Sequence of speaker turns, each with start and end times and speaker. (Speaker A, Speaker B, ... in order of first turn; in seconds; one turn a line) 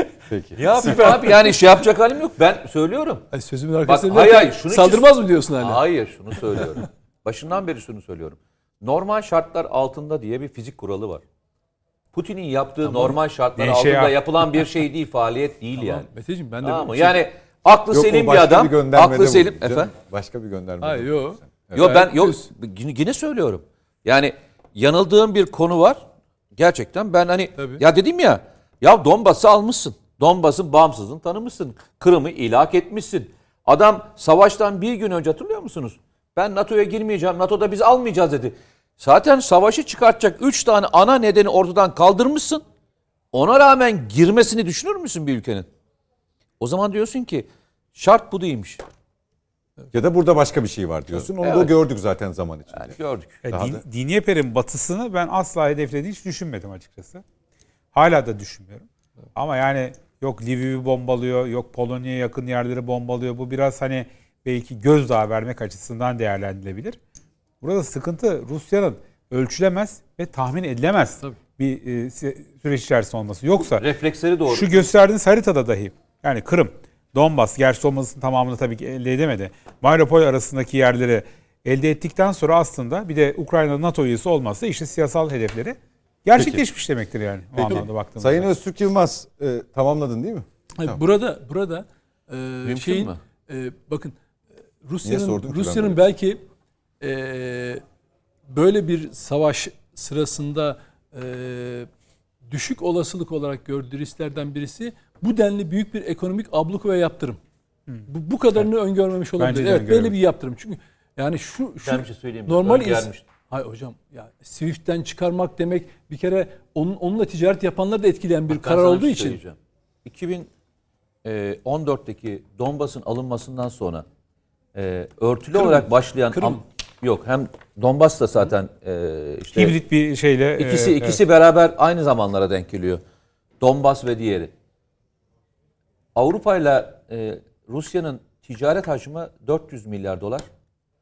Speaker A: 0.3-0.6
Speaker B: 0.6-3.2
Speaker C: 0.8-1.5
Speaker C: 3.3-5.8
Speaker B: 3.9-11.2
Speaker B: 12.1-16.1
Speaker D: 12.9-14.1
Speaker C: 15.8-17.2
Speaker B: 16.6-19.9
Speaker A: 17.9-21.9
Speaker C: 20.8-22.4
Speaker B: 21.7-42.6
Speaker B: 43.3-45.7
Speaker B: 46.6-48.8
Speaker A: 49.9-52.9
Speaker B: 51.3-51.7
Speaker B: 52.7-53.4
Speaker D: 53.4-57.2
Speaker A: 53.5-53.8
Speaker D: 57.9-67.0
Speaker D: 67.6-73.8
Speaker B: 73.6-74.9
Speaker D: 74.5-88.5
Speaker A: 86.3-86.6
Speaker A: 87.5-91.0
Speaker C: 90.8-94.2
Speaker B: 92.6-93.2
Speaker C: 94.8-96.4
Speaker A: 95.0-96.0
Speaker C: 97.0-97.8
Speaker C: 98.5-101.9
Speaker C: 102.5-107.4
Speaker D: 107.9-108.7
Speaker C: 108.1-119.4
Speaker D: 109.4-110.1
Speaker B: 111.8-113.2
Speaker B: 118.5-120.5
Speaker B: 121.2-124.0
Speaker B: 124.7-129.7
Speaker C: 125.5-126.6
Speaker D: 129.5-131.2
Speaker B: 130.6-133.0
Speaker B: 133.6-134.5
Speaker B: 136.1-140.4